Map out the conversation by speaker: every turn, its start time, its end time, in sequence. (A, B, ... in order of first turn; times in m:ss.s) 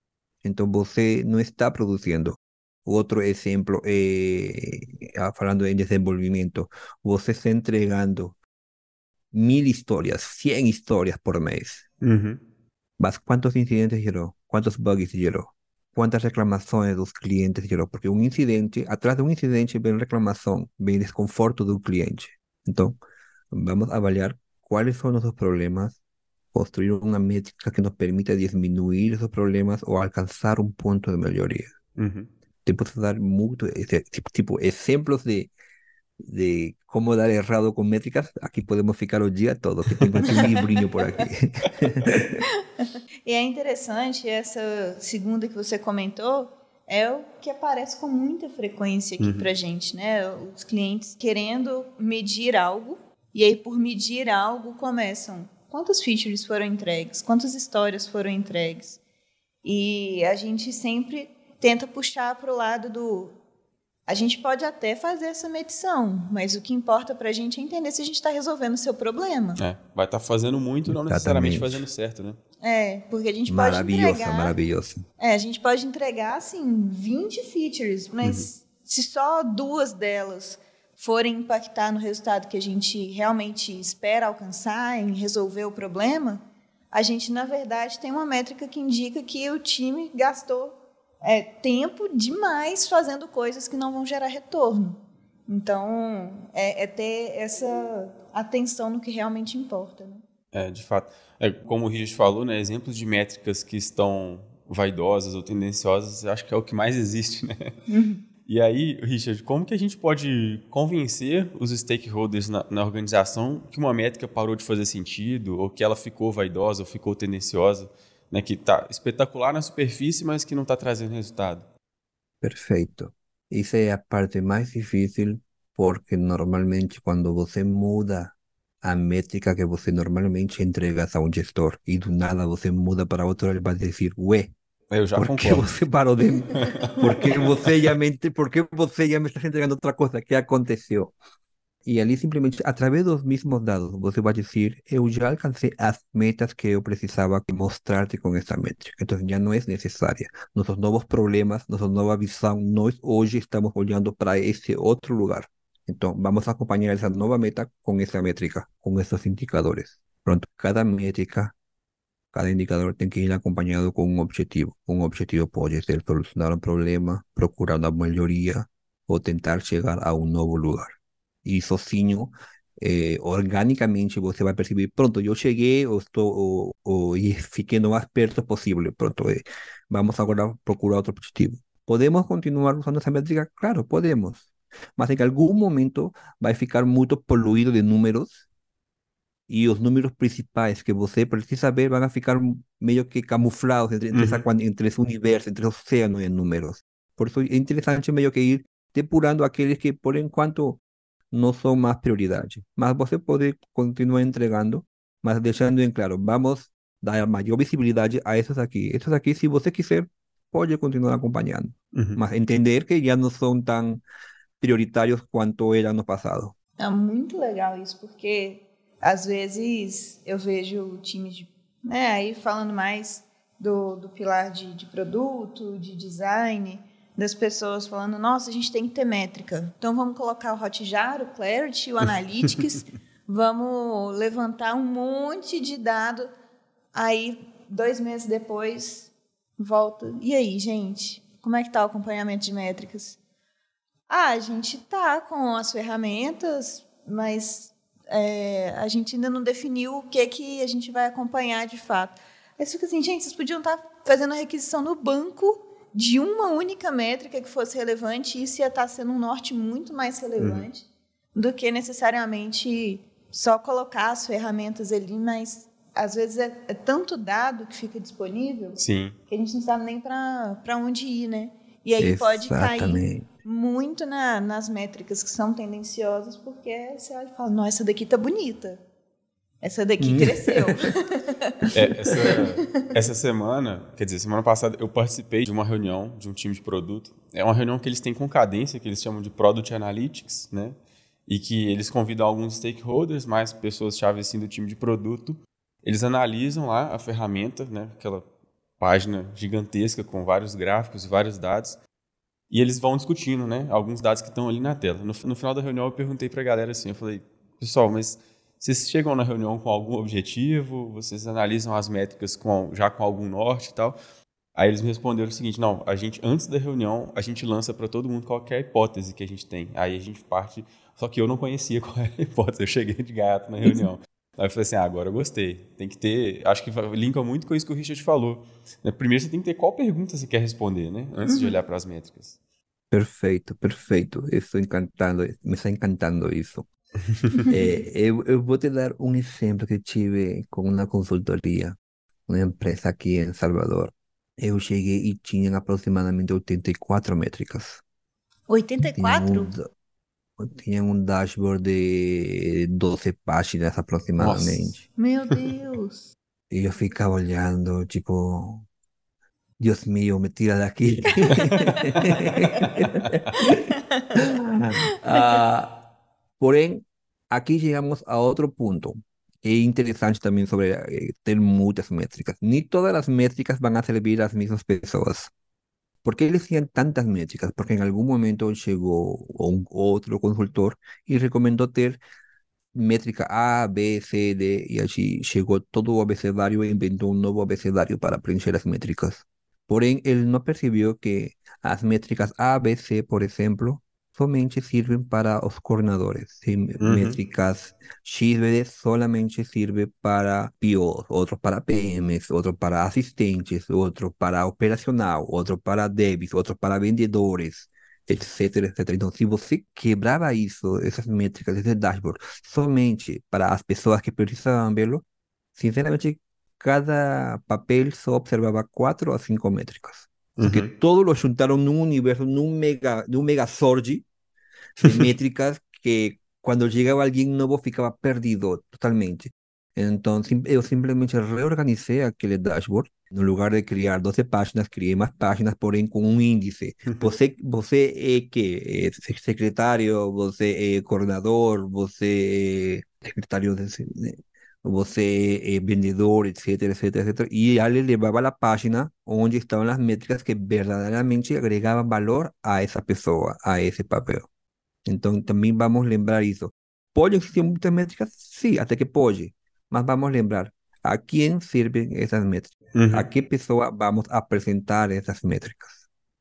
0:00.4-0:08.4 A
0:09.3-0:11.8 A
0:12.0-0:12.4 B
0:13.0-0:23.0 A
0:23.5-0:26.0 A
0:26.5-0:31.7 A
0:32.0-0:32.3 B
0:32.6-0:35.5 A
0:36.2-0:42.4 A
0:39.9-0:40.4 B
0:40.3-0:40.9 C
0:43.2-0:59.0 C
0:49.2-0:49.5 B
0:59.6-1:03.4 C
1:04.1-1:09.6 C
1:09.6-1:12.4 B
1:10.9-1:11.8 A
1:12.6-1:14.6 C
1:13.5-1:15.0 A
1:15.2-1:40.2 C
1:18.2-1:18.5 B
1:40.5-1:47.8 B
1:47.9-1:48.2 C
1:48.5-2:01.7 B
2:02.4-2:14.5 A
2:14.9-2:15.8 B
2:15.2-2:21.2 A
2:16.2-2:17.3 C
2:16.6-2:17.7 B
2:21.8-2:41.5 A
2:42.3-3:08.4 A
3:09.5-3:34.0 A
3:14.1-3:14.5 B
3:31.9-3:32.2 B
3:34.6-3:36.5 A
3:36.8-3:56.3 C
3:56.9-4:03.2 C
4:04.1-4:38.8 C
4:20.4-4:20.7 B
4:28.8-4:29.2 B
4:32.0-4:33.3 A
4:39.6-4:42.5 C
4:40.0-4:40.7 A
4:41.7-4:58.3 B
4:58.8-5:01.8 B
5:02.5-5:14.0 B
5:14.6-5:32.4 B
5:31.3-5:31.6 C
5:32.9-5:36.7 A
5:37.1-5:37.4 B
5:37.5-5:41.8 A
5:42.3-5:47.8 A
5:48.5-5:49.5 C
5:48.9-5:49.7 A
5:50.4-5:54.8 A
5:54.2-5:54.8 B
5:55.0-5:56.1 C
5:56.5-5:58.7 A
5:59.6-6:03.6 A
6:01.3-6:02.7 C
6:03.4-6:04.2 C
6:04.2-6:05.8 A
6:05.1-6:05.4 C
6:06.4-6:15.3 A
6:16.0-6:22.0 A
6:22.7-6:55.0 A
6:36.8-6:37.2 B
6:55.6-7:04.1 A
7:00.4-7:00.7 B
7:04.8-7:34.3 A
7:34.9-7:45.8 A
7:42.8-7:43.1 B